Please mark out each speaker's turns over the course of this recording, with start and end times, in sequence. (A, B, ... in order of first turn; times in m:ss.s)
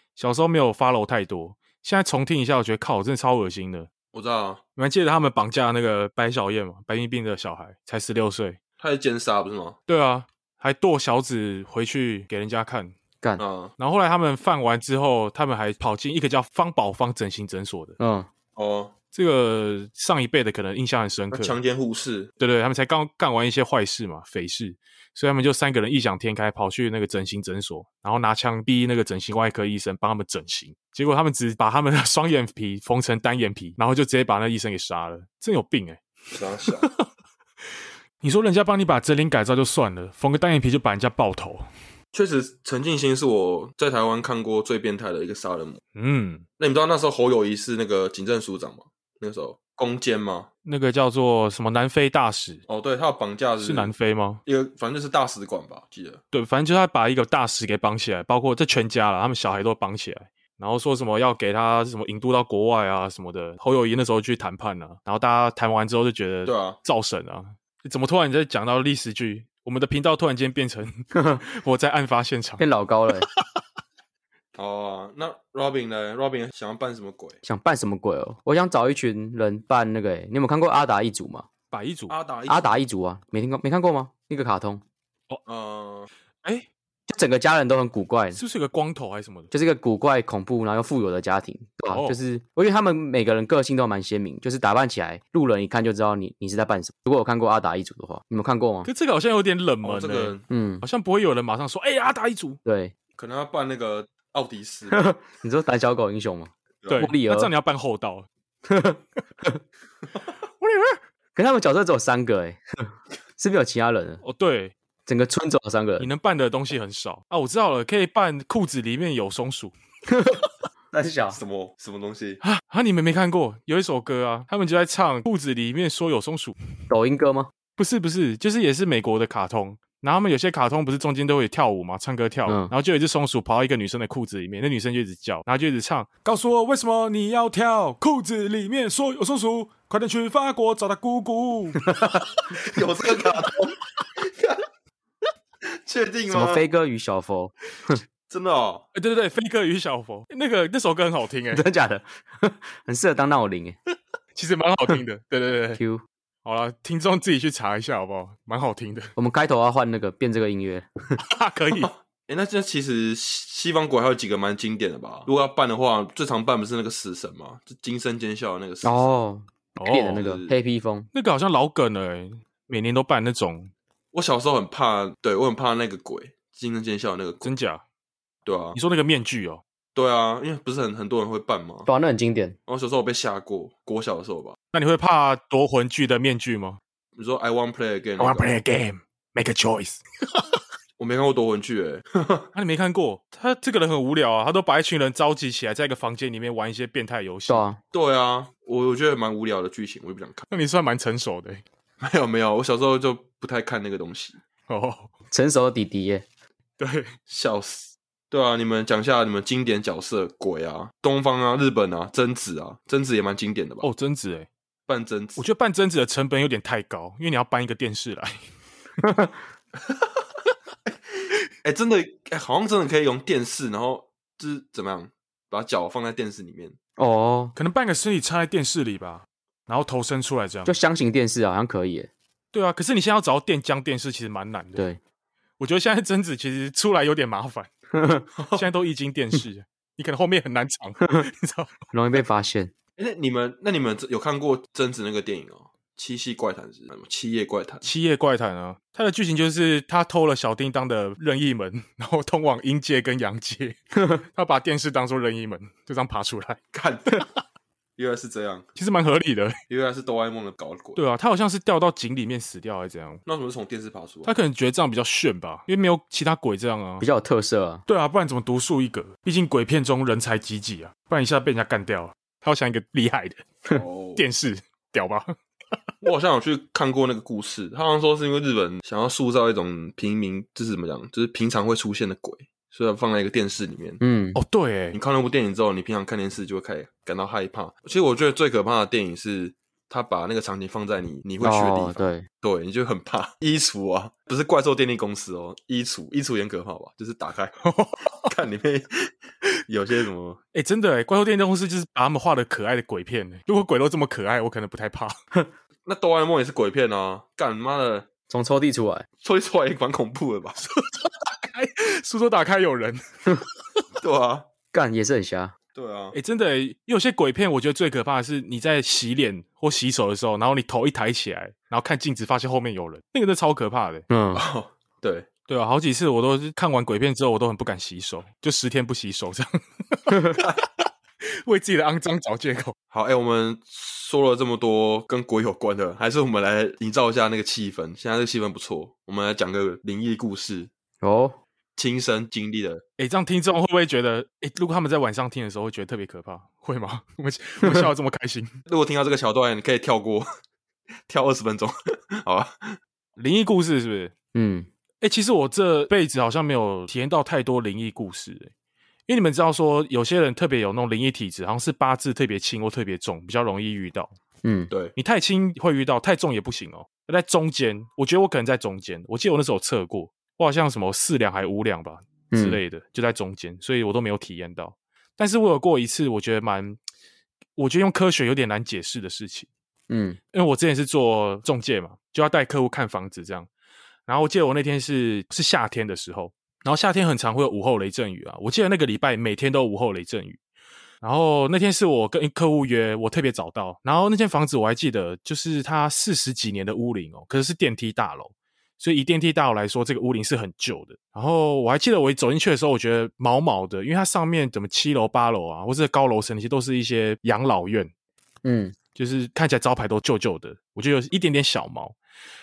0:00.2-0:03.9 A
0:04.1-0:04.6 B
0:04.8-0:08.6 A
0:08.8-0:09.8 B
0:09.9-0:12.9 A
0:13.4-0:13.7 B
0:13.8-0:18.0 A
0:18.0-0:18.3 C
0:18.6-0:18.9 B
0:19.1-0:21.6 A
0:21.3-0:22.3 B
0:22.4-0:36.0 A
0:36.3-0:36.9 B
0:36.8-0:37.0 A
0:38.2-0:41.6 A
0:42.1-0:45.8 B
0:45.9-0:46.4 A
0:46.6-0:50.5 B
0:50.6-0:52.6 A
0:52.7-0:53.9 B
0:53.6-0:54.4 A
0:54.4-0:56.2 B
0:56.3-1:12.6 A
1:06.4-1:06.8 B
1:11.1-1:11.4 C
1:12.6-1:13.3 C
1:13.2-1:13.5 A
1:14.5-1:17.4 B
1:17.4-1:21.5 C
1:21.7-1:22.1 A
1:22.1-1:22.8 B
1:22.5-1:24.8 C
1:25.4-1:26.1 B
1:27.1-1:28.4 C
1:28.3-1:29.5 A
1:29.5-1:38.9 C
1:31.9-1:32.2 A
1:38.8-1:42.6 A
1:39.8-1:40.4 B
1:40.5-1:40.8 C
1:42.6-1:42.9 C
1:43.2-1:45.0 B
1:44.9-1:47.5 C
1:46.8-1:47.1 B
1:46.9-1:48.3 A
1:48.6-1:49.6 C
1:50.6-1:51.0 A
1:51.4-1:54.2 C
1:54.2-1:54.7 A
1:55.0-1:56.1 C
1:56.0-1:59.7 A
2:00.1-2:00.4 C
2:00.9-2:01.4 C
2:01.3-2:02.4 B
2:02.4-2:06.5 A
2:06.9-2:07.5 C
2:07.8-2:21.9 A
2:12.5-2:12.7 C
2:21.8-2:22.3 C
2:22.5-2:24.6 B
2:25.7-2:26.6 B
2:26.3-2:28.0 C
2:28.3-2:28.8 B
2:28.9-2:31.6 A
2:31.5-2:33.8 C
2:34.3-2:35.8 A
2:35.8-2:36.0 C
2:36.4-2:39.1 A
2:39.2-2:41.2 C
2:41.2-2:41.9 A
2:41.8-2:49.0 B
2:48.8-2:51.1 C
2:49.8-2:50.2 A
2:50.2-2:50.5 B
2:51.1-2:53.7 A
2:54.1-2:57.5 B
2:57.4-2:57.8 A
2:58.4-2:58.8 B
2:58.7-2:59.6 A
2:59.9-3:01.9 B
3:01.9-3:02.6 C
3:02.7-3:04.6 B
3:04.7-3:06.8 A
3:07.2-3:08.5 B
3:08.2-3:10.4 A
3:11.0-3:12.5 B
3:12.5-3:17.6 A
3:17.5-3:17.8 C
3:17.9-3:20.4 B
3:20.5-3:21.6 A
3:22.0-3:24.4 B
3:24.7-3:25.1 A
3:25.3-3:26.2 C
3:26.8-3:27.1 A
3:27.3-3:33.9 B
3:33.8-3:34.5 A
3:34.9-3:35.4 B
3:35.4-3:38.4 A
3:39.0-3:39.3 C
3:41.6-3:46.8 B
3:47.0-3:47.5 C
3:47.6-3:50.7 A
3:50.6-3:52.1 C
3:52.5-3:54.9 A
3:55.6-3:57.7 A
3:57.9-3:58.3 C
3:58.4-3:58.6 B
3:58.5-4:01.7 A
4:01.9-4:02.7 C
4:03.0-4:07.8 B
4:07.8-4:16.6 A
4:16.7-4:17.2 B
4:18.0-4:18.7 B
4:18.8-4:19.6 A
4:19.7-4:21.0 B
4:21.0-4:23.2 A
4:23.2-4:24.3 B
4:24.2-4:27.0 A
4:27.0-4:27.8 C
4:27.9-4:33.4 A
4:33.7-4:34.2 B
4:34.2-4:35.3 A
4:36.0-4:44.0 B
4:44.0-4:44.4 C
4:44.4-4:45.0 A
4:44.9-4:57.6 B
4:51.4-4:52.3 C
4:57.6-4:58.3 A
4:58.2-4:59.1 B
4:59.7-5:00.4 B
5:00.5-5:05.2 A
5:05.8-5:08.1 B
5:08.3-5:09.0 C
5:09.2-5:10.6 B
5:10.6-5:13.5 A
5:14.0-5:14.5 B
5:14.7-5:15.5 C
5:15.7-5:16.2 B
5:16.1-5:24.0 A
5:24.1-5:24.4 C
5:24.3-5:25.3 B
5:25.5-5:30.6 A
5:30.1-5:30.4 C
5:31.4-5:32.7 A
5:32.9-5:40.7 B
5:41.0-5:41.4 C
5:41.8-5:42.8 B
5:43.0-5:48.5 A
5:48.7-5:50.3 B
5:51.1-5:52.8 B
5:53.2-5:54.1 A
5:54.3-5:54.7 C
5:55.0-5:58.5 A
5:59.1-6:04.1 A
6:04.4-6:04.7 C
6:05.0-6:16.8 A
6:12.3-6:12.6 C
6:17.6-6:19.5 A
6:19.9-6:20.2 C
6:20.3-6:23.5 A
6:24.1-6:30.4 A
6:31.0-6:47.9 A
6:48.4-6:48.8 C
6:49.0-6:51.9 A